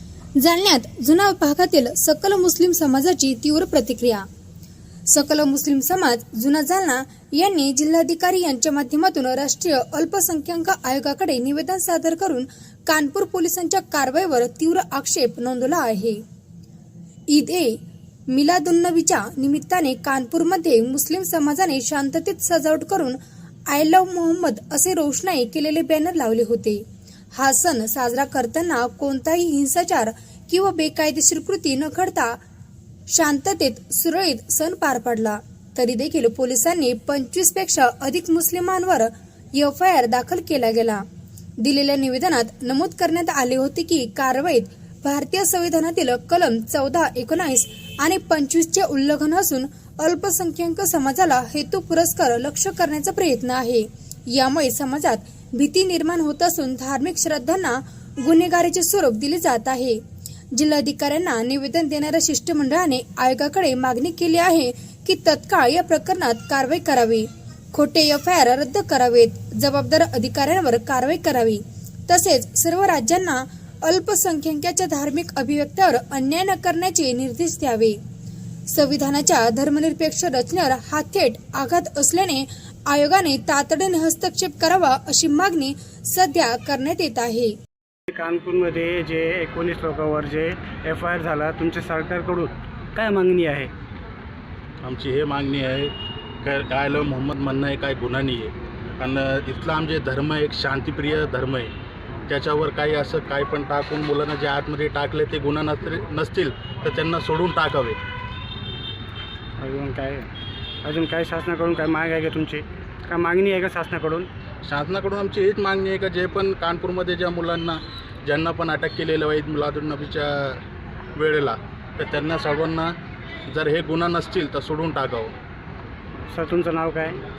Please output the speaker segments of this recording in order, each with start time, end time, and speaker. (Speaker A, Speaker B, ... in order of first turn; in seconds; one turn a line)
Speaker A: 0.4-4.2
Speaker A: 5.1-16.2
Speaker A: 17.3-26.8
Speaker A: 27.3-32.4
Speaker A: 33.1-41.0
Speaker A: 41.6-60.0
Speaker A: 60.5-78.0
Speaker A: 78.7-87.5
Speaker B: 88.1-93.7
Speaker C: 94.8-101.7
Speaker C: 102.3-108.0
Speaker B: 109.6-110.3
Speaker B: 110.8-114.3
Speaker C: 114.6-120.6
Speaker C: 121.1-122.9
Speaker C: 123.5-125.3
Speaker B: 126.3-127.2